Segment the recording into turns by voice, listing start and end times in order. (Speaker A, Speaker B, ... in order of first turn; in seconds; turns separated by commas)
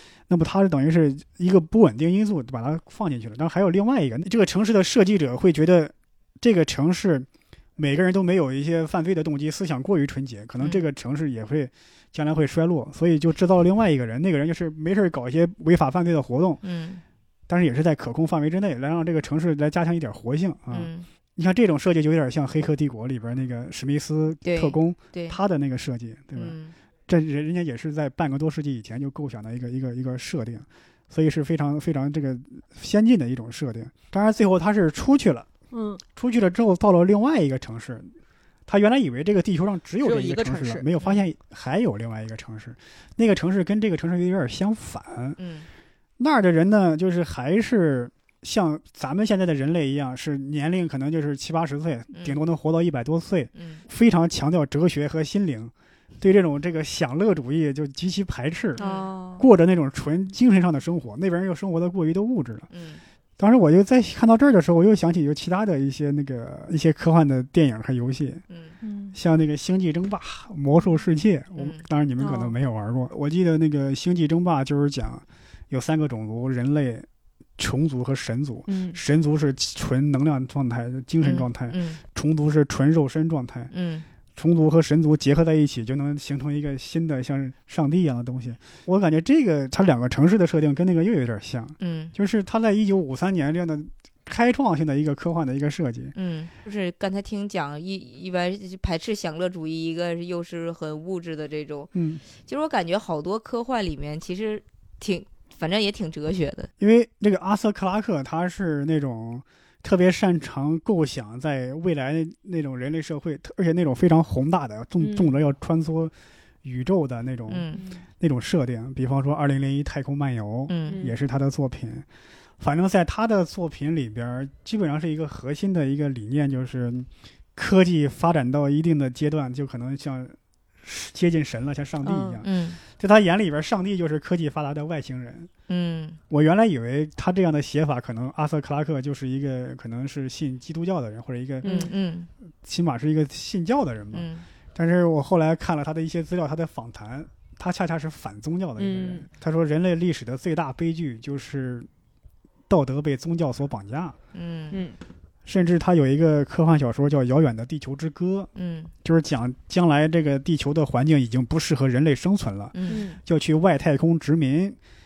Speaker A: 0.3-16.6, Speaker B: 16.6-17.0, Speaker A: 17.5-26.6, Speaker B: 20.7-21.1, Speaker B: 24.4-25.4, Speaker B: 26.3-26.7, Speaker A: 27.1-35.5, Speaker C: 35.7-36.0, Speaker A: 36.1-38.1, Speaker A: 38.7-45.4, Speaker C: 40.0-40.9, Speaker B: 45.4-45.7, Speaker A: 46.2-58.8, Speaker B: 52.1-52.4, Speaker B: 53.5-53.8, Speaker B: 58.8-59.1, Speaker C: 58.8-59.4, Speaker A: 59.4-62.7, Speaker B: 62.7-63.0, Speaker A: 63.4-68.4, Speaker B: 68.5-68.8, Speaker C: 68.8-69.2, Speaker A: 69.1-77.1, Speaker B: 71.5-71.8, Speaker C: 72.2-72.6, Speaker A: 77.6-83.7, Speaker C: 78.7-79.0, Speaker B: 81.2-82.0, Speaker B: 83.7-84.0, Speaker A: 84.3-96.1, Speaker B: 91.8-92.1, Speaker B: 96.1-106.7, Speaker A: 101.9-102.2, Speaker A: 106.8-116.1, Speaker C: 115.0-115.3, Speaker A: 116.6-122.0, Speaker B: 117.5-117.8, Speaker C: 117.7-118.0, Speaker B: 120.7-121.0, Speaker C: 120.9-121.1, Speaker A: 122.6-135.5, Speaker C: 132.0-132.4, Speaker B: 132.4-132.8, Speaker B: 135.7-136.2, Speaker A: 136.3-141.7, Speaker C: 141.6-141.9, Speaker B: 141.6-142.3, Speaker A: 142.6-151.9, Speaker B: 144.1-144.4, Speaker C: 148.8-149.2, Speaker A: 152.7-154.2, Speaker B: 154.3-154.8, Speaker C: 154.7-155.0, Speaker A: 155.4-158.5, Speaker B: 158.5-158.9, Speaker A: 159.0-164.8, Speaker B: 162.7-163.0, Speaker C: 162.9-163.2